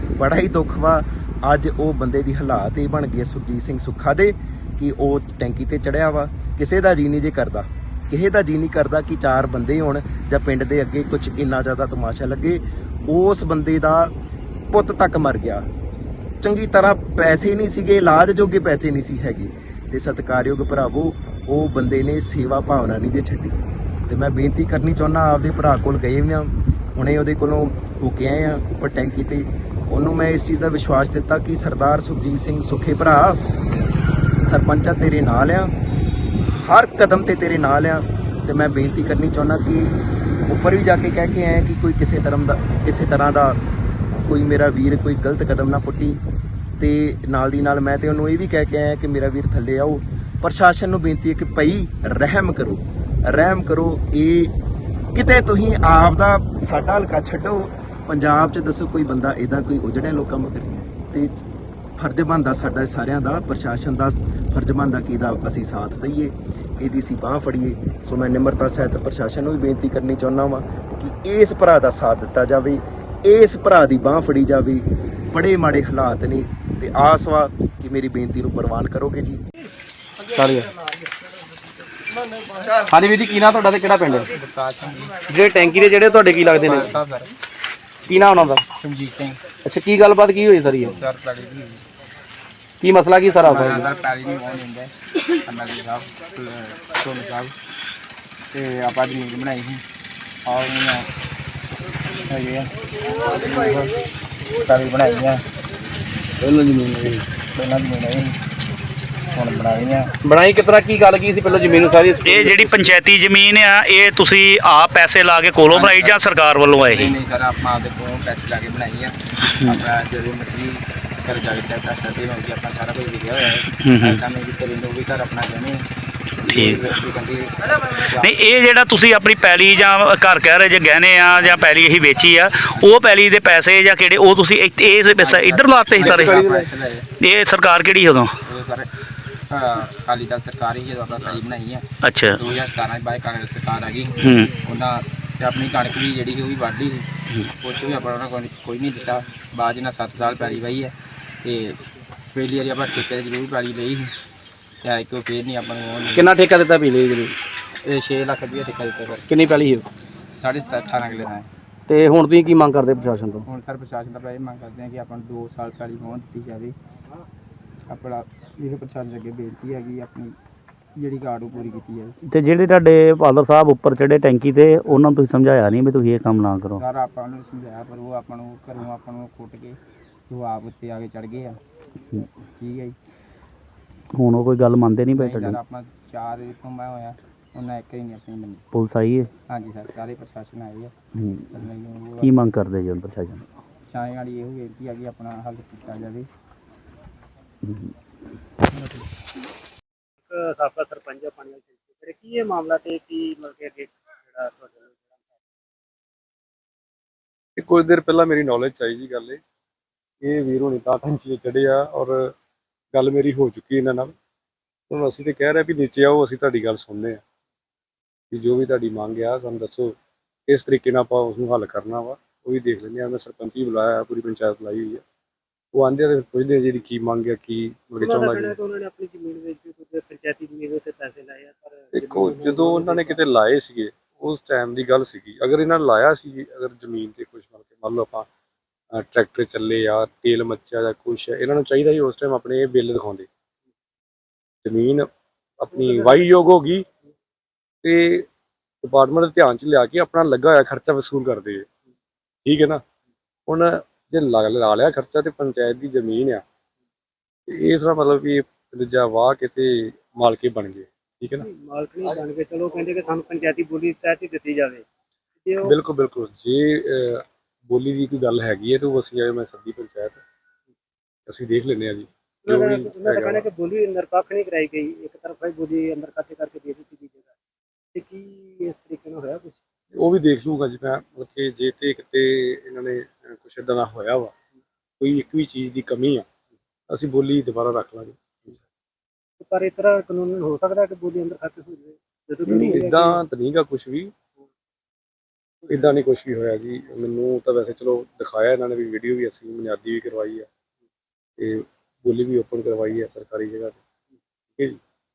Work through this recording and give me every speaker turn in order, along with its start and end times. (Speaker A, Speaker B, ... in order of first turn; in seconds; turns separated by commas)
Speaker A: 0.2-14.1, Speaker A: 14.7-15.7, Speaker A: 16.4-33.4, Speaker A: 34.4-35.7, Speaker A: 36.6-40.0, Speaker A: 40.5-43.6, Speaker A: 44.3-46.2, Speaker A: 46.8-54.5, Speaker A: 55.1-61.3, Speaker A: 62.0-79.4, Speaker B: 80.3-80.7, Speaker B: 82.9-84.3, Speaker C: 84.3-85.2, Speaker B: 85.3-86.9, Speaker C: 86.6-87.3, Speaker B: 88.1-88.6, Speaker C: 88.7-89.4, Speaker B: 89.6-91.0, Speaker C: 90.7-91.8, Speaker B: 92.8-93.9, Speaker C: 93.4-97.5, Speaker C: 98.5-99.8, Speaker C: 100.5-101.1, Speaker C: 102.3-102.7, Speaker C: 103.3-103.9, Speaker C: 104.6-105.4, Speaker B: 106.4-107.3, Speaker C: 107.5-108.4, Speaker C: 109.3-110.1, Speaker B: 110.2-112.9, Speaker D: 112.2-117.2, Speaker C: 115.7-116.2, Speaker C: 116.7-125.8, Speaker D: 123.8-124.2, Speaker C: 126.5-128.5, Speaker D: 126.5-126.9, Speaker D: 128.1-136.4, Speaker C: 132.8-133.0, Speaker C: 135.2-137.1, Speaker B: 136.2-136.7, Speaker D: 137.2-138.3, Speaker C: 138.4-138.9, Speaker C: 139.5-141.8, Speaker D: 142.0-142.4, Speaker C: 142.4-147.1, Speaker D: 144.2-144.5, Speaker C: 147.6-151.8, Speaker C: 152.3-154.1, Speaker C: 154.8-156.3, Speaker B: 156.1-157.4, Speaker C: 157.8-159.3, Speaker B: 159.3-159.9, Speaker C: 160.4-161.5, Speaker B: 161.9-163.4, Speaker C: 163.4-166.8, Speaker C: 167.9-170.4, Speaker C: 171.0-172.2, Speaker D: 172.3-176.8, Speaker C: 176.8-181.6, Speaker C: 182.6-183.0, Speaker D: 184.1-185.6, Speaker C: 185.2-188.6, Speaker D: 188.7-189.3, Speaker C: 189.5-190.9, Speaker D: 191.2-191.6, Speaker C: 191.5-192.3, Speaker D: 192.2-193.5, Speaker C: 193.9-196.3, Speaker D: 197.6-197.9, Speaker E: 200.3-205.0, Speaker F: 207.6-209.4, Speaker F: 210.2-212.2, Speaker F: 212.9-214.1, Speaker F: 214.9-217.2, Speaker F: 218.3-219.9, Speaker F: 220.5-225.0, Speaker F: 225.7-228.6, Speaker E: 228.0-233.2, Speaker F: 231.9-238.3, Speaker F: 239.0-243.3, Speaker F: 244.6-245.1, Speaker F: 245.6-246.8, Speaker F: 247.8-248.2, Speaker F: 248.8-251.7, Speaker F: 252.4-252.8, Speaker F: 253.5-256.4, Speaker F: 257.5-261.5, Speaker E: 261.4-264.8, Speaker F: 265.6-270.2, Speaker F: 271.3-273.5, Speaker E: 272.5-277.3, Speaker E: 277.9-279.6, Speaker F: 279.9-284.3, Speaker F: 285.0-286.2, Speaker F: 286.9-288.6, Speaker E: 289.4-293.2, Speaker F: 292.5-294.1, Speaker F: 295.7-300.5, Speaker F: 301.4-303.8